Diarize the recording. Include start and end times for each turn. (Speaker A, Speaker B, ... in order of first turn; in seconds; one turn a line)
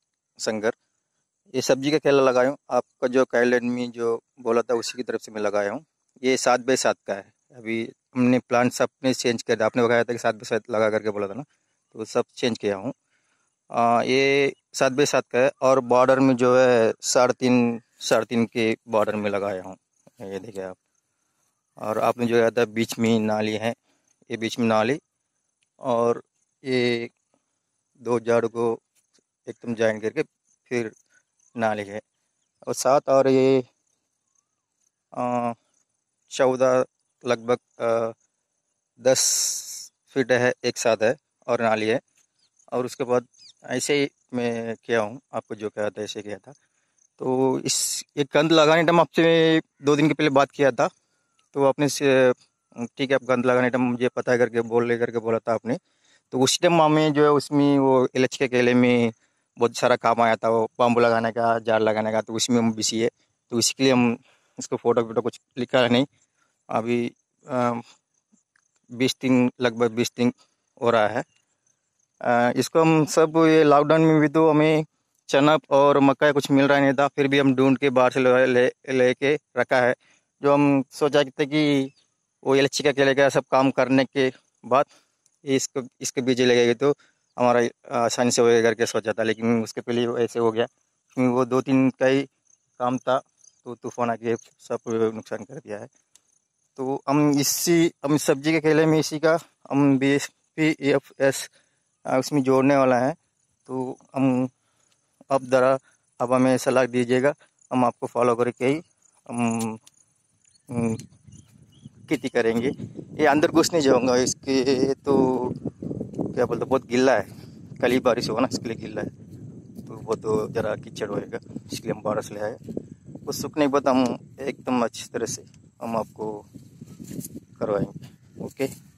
Speaker A: 0.4-0.7
Speaker A: 1.5-12.9
Speaker A: 13.7-20.8
Speaker A: 21.8-23.8
Speaker A: 24.3-25.0
Speaker A: 25.8-27.1
Speaker A: 28.0-28.8
Speaker A: 29.4-30.9
Speaker A: 31.6-32.0
Speaker A: 32.6-33.7
Speaker A: 35.1-35.6
Speaker A: 36.3-38.1
Speaker A: 39.0-42.0
Speaker A: 42.7-46.5
Speaker A: 47.2-50.9
Speaker A: 51.5-55.8
Speaker A: 56.3-66.1
Speaker A: 66.7-67.8
Speaker A: 68.9-71.2
Speaker A: 72.2-81.9
Speaker A: 82.4-84.9
Speaker A: 85.4-92.3
Speaker A: 92.8-95.9
Speaker A: 96.8-101.5
Speaker A: 102.1-104.5
Speaker A: 105.3-109.8
Speaker A: 110.7-111.0
Speaker A: 112.1-115.6
Speaker A: 116.3-117.3
Speaker A: 117.8-119.1
Speaker A: 119.8-122.6
Speaker A: 123.2-126.4
Speaker A: 127.6-128.7